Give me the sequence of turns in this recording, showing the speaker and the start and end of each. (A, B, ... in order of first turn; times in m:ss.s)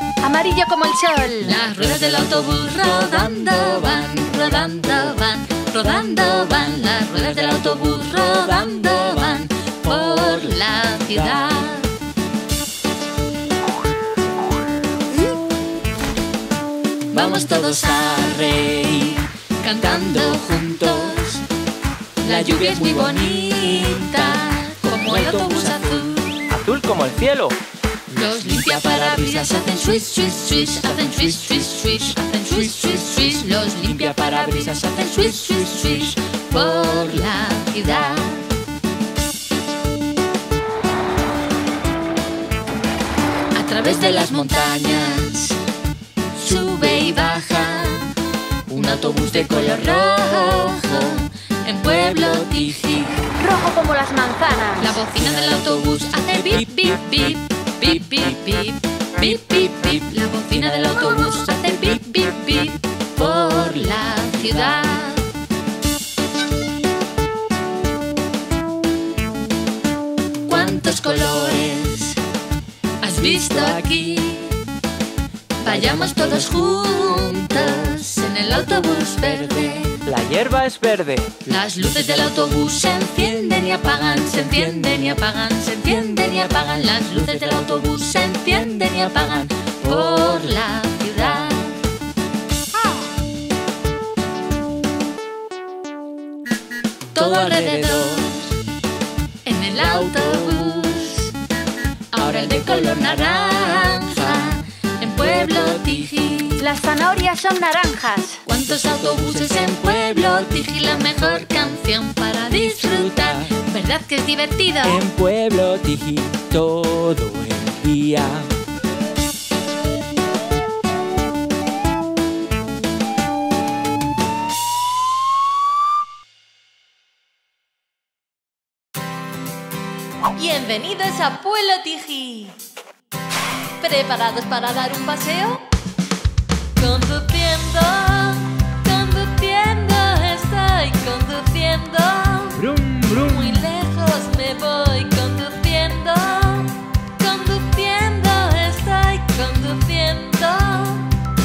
0:00.2-0:01.6 A
0:01.4-0:11.9 B
0:01.8-0:03.2 C
0:09.8-0:10.4 C
0:11.1-0:11.4 C
0:17.1-0:21.4 B
0:17.1-0:19.1 C
0:19.8-0:21.2 C
0:22.2-0:26.4 B
0:22.2-0:27.6 C
0:28.1-0:38.4 B
0:28.3-0:29.6 C
0:30.5-0:36.2 C
0:43.5-0:45.6 B
0:46.4-0:48.1 B
0:48.7-0:53.2 B
0:48.7-0:51.2 C
0:51.8-0:52.8 C
0:53.4-0:55.0 A
0:54.8-1:05.2 B
0:55.1-0:57.4 C
1:00.7-1:02.0 C
1:10.5-1:12.2 B
1:13.0-1:14.6 B
1:13.2-1:13.9 C
1:15.6-1:20.0 B
1:15.6-1:16.5 C
1:17.6-1:18.0 C
1:20.0-1:21.5 C
1:21.5-1:31.8 B
1:37.1-1:38.5 B
1:37.2-1:38.3 C
1:39.5-1:41.3 B
1:39.8-1:41.0 C
1:42.1-1:46.6 B
1:42.2-1:44.6 C
1:45.2-1:46.2 C
1:46.6-1:48.4 A
1:48.5-1:55.0 B
1:48.5-1:51.8 C
1:52.4-1:53.5 C
1:54.5-1:54.9 A
1:54.8-1:58.5 C
2:10.4-2:12.6 A
2:13.8-2:15.6 A
2:16.8-2:22.6 A
2:22.6-2:23.6 C
2:23.2-2:31.1 A